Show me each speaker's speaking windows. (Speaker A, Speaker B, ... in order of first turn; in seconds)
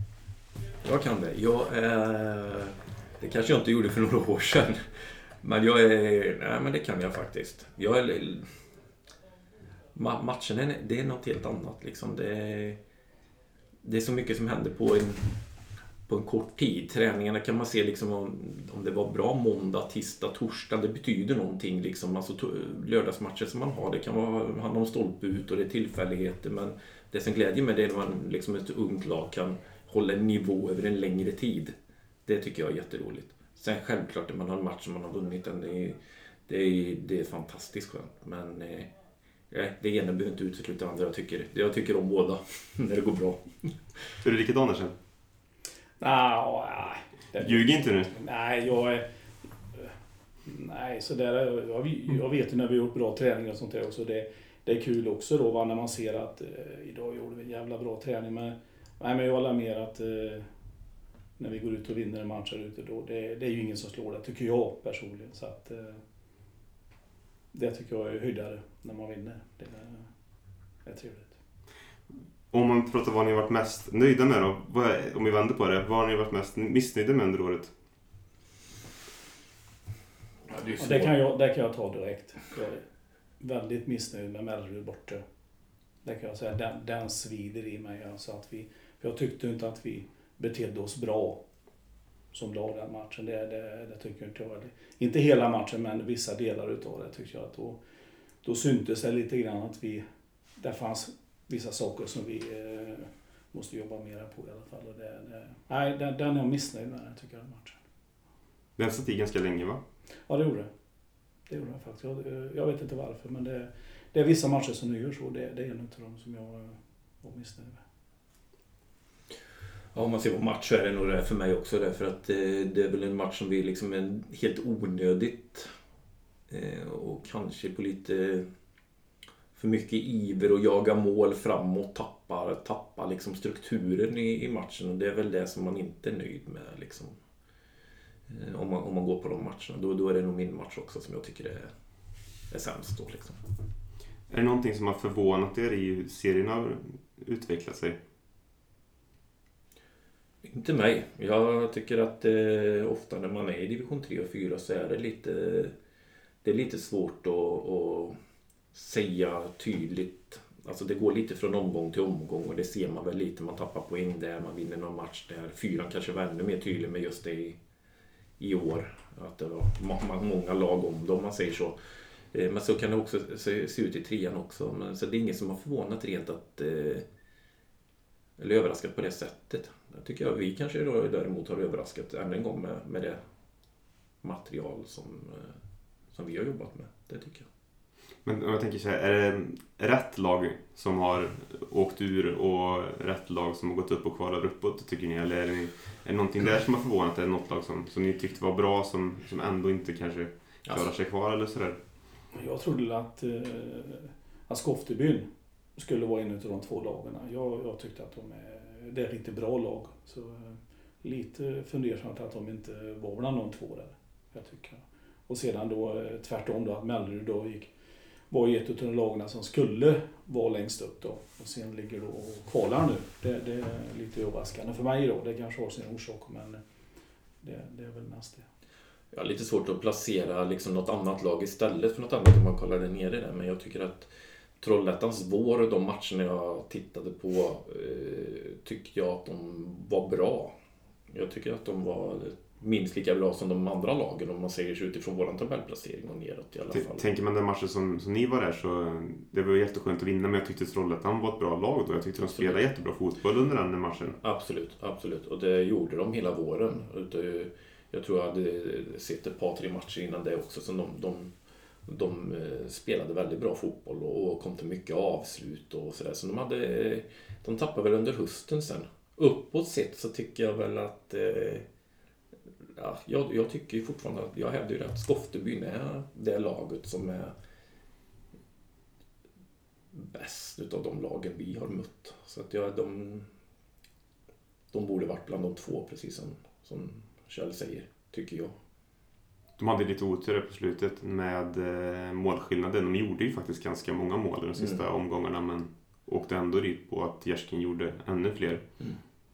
Speaker A: 0.8-8.5, 9.9-12.8, 13.8-15.4, 16.1-31.7, 32.2-38.9, 39.5-43.7, 80.5-81.1, 119.9-125.7, 126.5-128.5, 129.6-137.2, 138.3-141.7, 142.5-143.4, 150.4-155.7, 156.4-158.2, 158.7-167.6, 168.4-171.8, 172.3-177.1, 178.4-183.2, 184.2-185.5, 186.1-187.5, 229.1-240.5, 241.1-247.0, 254.2-261.3, 261.9-271.6, 272.8-277.3, 279.9-283.3, 284.7-288.5
Speaker B: 44.2-44.9, 47.4-48.1, 72.5-77.7, 108.8-109.8, 144.3-148.0, 188.2-201.8, 246.7-254.2, 289.6-298.6
Speaker C: 46.0-49.1, 50.4-60.5, 61.4-66.0, 67.5-70.1, 70.8-71.3, 80.8-82.8, 83.4-85.2, 86.0-91.4, 92.3-97.8, 98.4-100.0, 100.6-107.8, 110.3-110.7, 111.5-117.8, 202.3-217.7, 218.3-226.6, 227.4-228.4